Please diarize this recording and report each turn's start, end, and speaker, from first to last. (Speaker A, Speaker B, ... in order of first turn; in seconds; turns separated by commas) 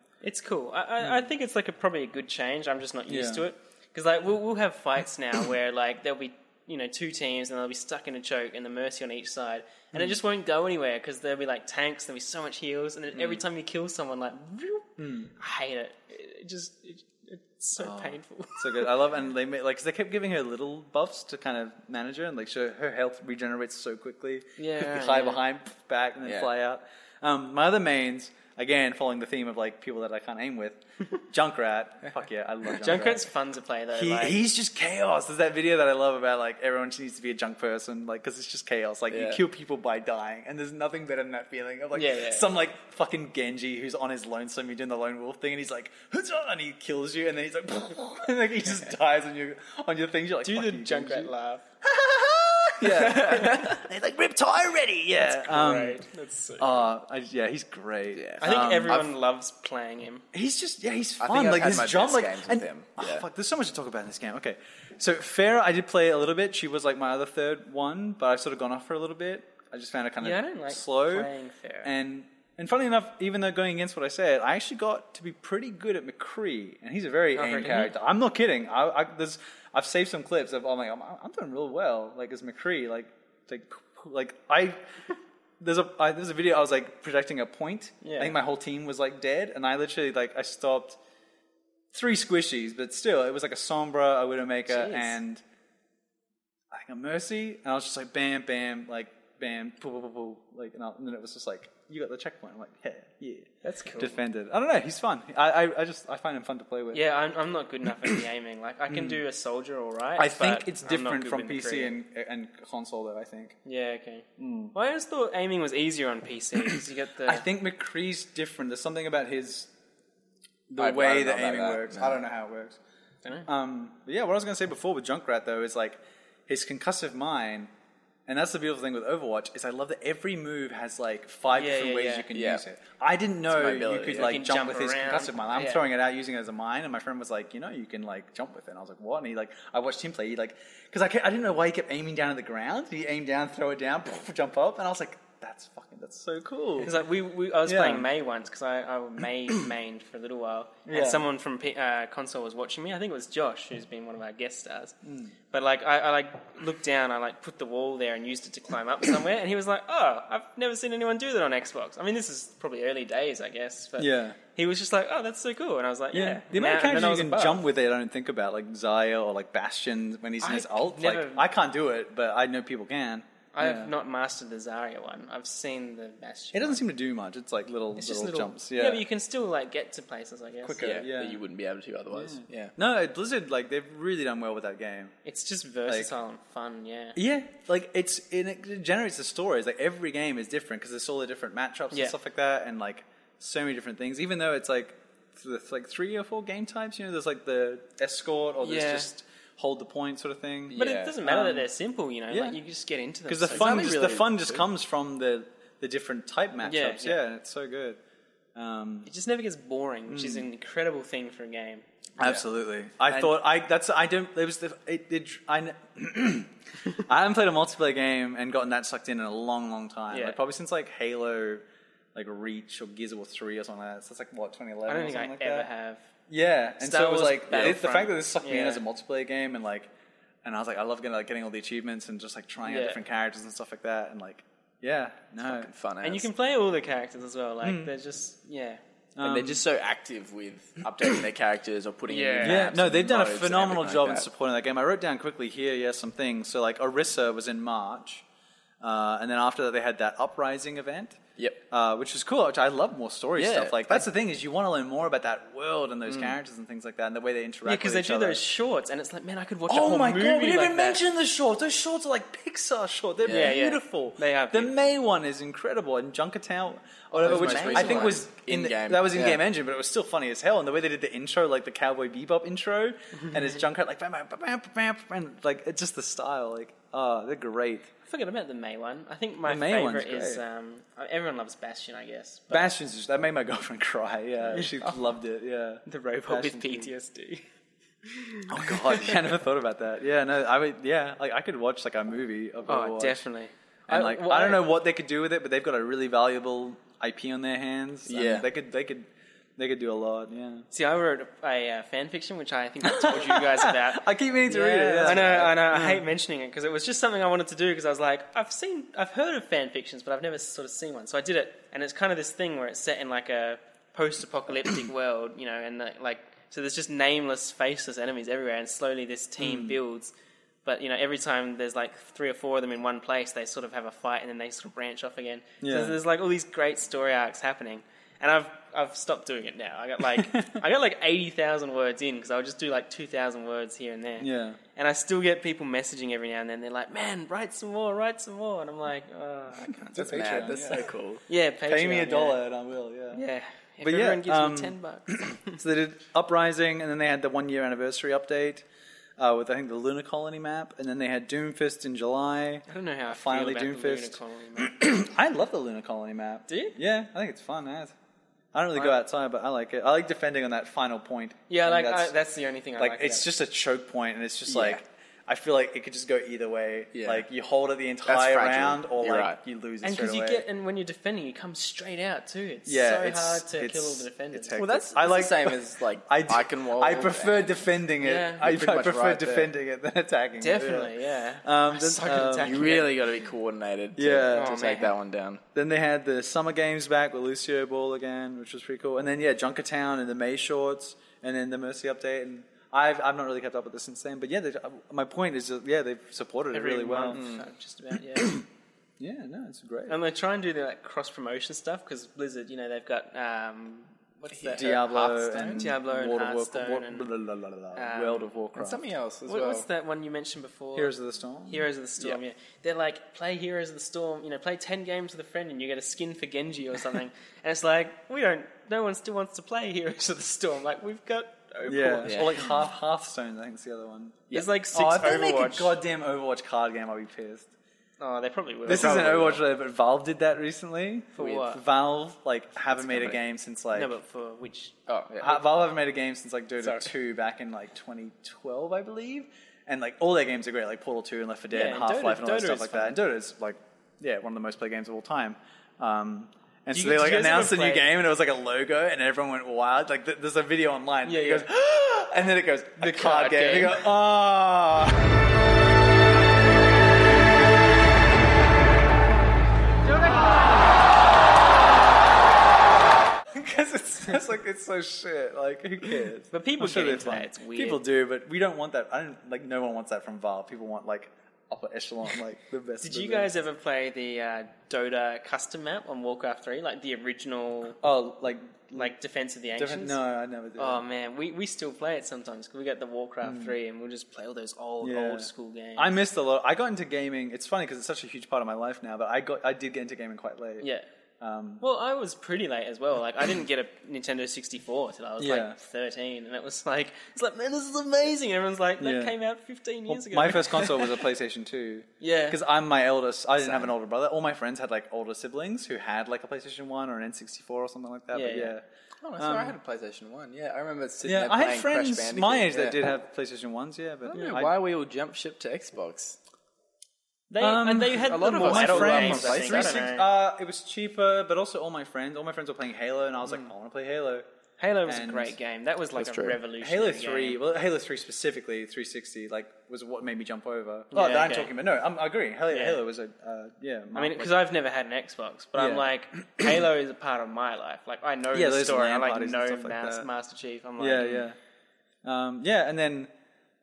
Speaker A: 0.2-18.9, Speaker B: 1.0-1.2, Speaker B: 3.1-3.5, Speaker B: 9.9-10.2, Speaker B: 13.1-13.4, Speaker B: 15.0-15.3, Speaker B: 17.8-33.3, Speaker A: 24.6-25.4, Speaker C: 26.2-26.5, Speaker A: 32.8-34.4, Speaker B: 33.9-51.3, Speaker C: 39.1-39.4, Speaker A: 42.0-42.5, Speaker A: 50.5-51.6, Speaker B: 51.9-56.0, Speaker C: 52.8-53.8, Speaker A: 55.2-56.8, Speaker B: 56.6-59.1, Speaker C: 58.1-58.5, Speaker A: 58.4-60.2, Speaker B: 60.3-71.3, Speaker C: 61.2-63.2, Speaker A: 70.2-71.9, Speaker B: 71.8-84.8, Speaker A: 77.3-78.0, Speaker B: 85.6-91.0, Speaker A: 88.0-88.3, Speaker B: 91.9-95.4, Speaker A: 94.7-95.2, Speaker B: 96.7-107.0, Speaker A: 103.6-104.2, Speaker A: 106.9-111.9, Speaker B: 108.9-109.2, Speaker B: 110.2-113.6, Speaker A: 113.7-117.5, Speaker B: 114.4-114.7, Speaker B: 116.8-119.7, Speaker B: 120.7-122.8, Speaker C: 120.8-122.2, Speaker B: 123.5-127.7, Speaker B: 128.3-147.0, Speaker A: 131.5-132.3, Speaker C: 132.3-132.6, Speaker C: 133.5-134.4, Speaker A: 134.1-135.8, Speaker A: 146.8-154.9, Speaker B: 147.7-148.1, Speaker B: 150.8-151.2, Speaker B: 155.0-155.3, Speaker A: 155.5-167.7, Speaker B: 164.0-164.4, Speaker B: 166.1-173.9, Speaker A: 170.4-171.4, Speaker A: 173.5-176.8, Speaker B: 176.5-179.0, Speaker A: 178.0-180.8, Speaker B: 180.6-181.4, Speaker C: 180.8-182.8, Speaker B: 182.1-185.1, Speaker A: 185.2-187.2, Speaker B: 187.2-201.7, Speaker A: 198.6-199.1, Speaker A: 200.7-204.0, Speaker C: 200.7-201.2, Speaker B: 202.3-202.6, Speaker B: 203.3-208.0, Speaker C: 203.5-204.7, Speaker A: 206.6-207.2, Speaker B: 208.6-209.1, Speaker A: 209.1-211.8, Speaker B: 210.1-210.5, Speaker B: 212.2-221.6, Speaker A: 220.1-220.4, Speaker B: 222.2-225.7, Speaker A: 224.9-226.1, Speaker B: 226.3-229.9, Speaker A: 226.8-228.8, Speaker B: 230.4-235.7, Speaker A: 232.7-233.0, Speaker C: 235.4-236.3, Speaker A: 236.0-238.8, Speaker B: 237.6-237.9, Speaker B: 239.2-239.6, Speaker C: 239.2-244.3, Speaker A: 242.1-242.7, Speaker B: 242.4-248.2, Speaker B: 248.8-258.4, Speaker C: 253.4-254.1, Speaker C: 256.1-256.4, Speaker A: 257.7-261.0, Speaker B: 259.7-277.9, Speaker C: 263.2-263.6, Speaker A: 263.2-264.7, Speaker A: 267.1-268.2, Speaker C: 267.2-269.4, Speaker A: 278.1-282.8, Speaker B: 279.5-280.4, Speaker B: 282.5-286.9, Speaker A: 284.5-285.0, Speaker A: 285.9-287.4, Speaker A: 288.0-289.2, Speaker B: 288.5-293.2, Speaker A: 292.7-294.7, Speaker B: 293.9-300.7, Speaker C: 298.1-298.5, Speaker A: 300.7-320.1, Speaker B: 302.8-306.0, Speaker B: 319.4-319.8, Speaker A: 320.6-342.4, Speaker B: 325.6-326.0, Speaker B: 330.1-330.6, Speaker B: 334.2-334.6, Speaker B: 339.7-340.8, Speaker C: 339.9-341.2, Speaker B: 341.7-343.2, Speaker A: 343.1-345.6, Speaker B: 343.8-348.6, Speaker B: 349.2-357.9, Speaker A: 352.7-355.0, Speaker A: 356.5-356.8, Speaker B: 358.5-362.1, Speaker A: 361.5-363.3, Speaker B: 362.8-370.4, Speaker C: 364.5-364.8, Speaker C: 366.9-367.2, Speaker C: 368.0-369.4, Speaker A: 369.8-374.7, Speaker B: 372.7-382.6, Speaker C: 374.5-377.6, Speaker A: 378.0-378.5, Speaker C: 378.4-379.5, Speaker A: 380.4-383.1, Speaker C: 382.0-385.4, Speaker B: 384.0-384.8, Speaker A: 384.3-384.9, Speaker B: 385.5-397.2, Speaker A: 396.5-398.4, Speaker C: 397.1-397.5, Speaker B: 399.0-400.0, Speaker A: 399.9-407.1, Speaker C: 404.3-405.6, Speaker B: 404.5-408.8, Speaker A: 407.8-408.3, Speaker C: 408.6-409.7, Speaker A: 409.2-410.9, Speaker B: 410.8-411.7, Speaker A: 411.5-422.5, Speaker B: 421.7-427.5, Speaker C: 422.0-422.3, Speaker A: 424.3-425.8, Speaker A: 428.0-429.4, Speaker B: 428.7-433.9, Speaker C: 428.7-429.4, Speaker A: 431.1-431.6, Speaker C: 432.8-433.2, Speaker A: 433.7-434.8, Speaker C: 434.9-435.4, Speaker B: 435.2-455.1, Speaker C: 436.6-436.9, Speaker A: 441.5-443.0, Speaker A: 446.7-447.9, Speaker A: 451.0-451.5, Speaker A: 452.8-453.9, Speaker A: 460.0-460.3, Speaker B: 463.3-473.3, Speaker A: 466.3-467.8, Speaker A: 472.8-477.8, Speaker B: 477.8-478.9, Speaker A: 478.8-480.0, Speaker B: 479.5-480.8, Speaker A: 480.6-485.9, Speaker B: 483.2-483.5, Speaker B: 484.8-490.7, Speaker B: 491.2-491.6, Speaker A: 491.6-501.1, Speaker B: 495.2-495.6, Speaker B: 498.8-499.1, Speaker B: 499.9-508.6, Speaker A: 502.0-502.4, Speaker C: 503.4-503.7, Speaker A: 508.1-508.6, Speaker C: 509.0-512.8, Speaker B: 509.2-509.6, Speaker B: 511.0-514.6, Speaker C: 514.0-516.2, Speaker A: 517.3-520.0, Speaker B: 517.4-524.2, Speaker C: 518.0-519.8, Speaker A: 524.6-527.4, Speaker B: 524.9-525.4, Speaker C: 526.0-526.4, Speaker B: 526.6-534.4, Speaker A: 530.9-531.6, Speaker A: 532.5-532.8, Speaker A: 534.0-541.3, Speaker B: 535.5-536.5, Speaker B: 538.3-540.1, Speaker B: 540.8-541.4, Speaker B: 542.0-543.1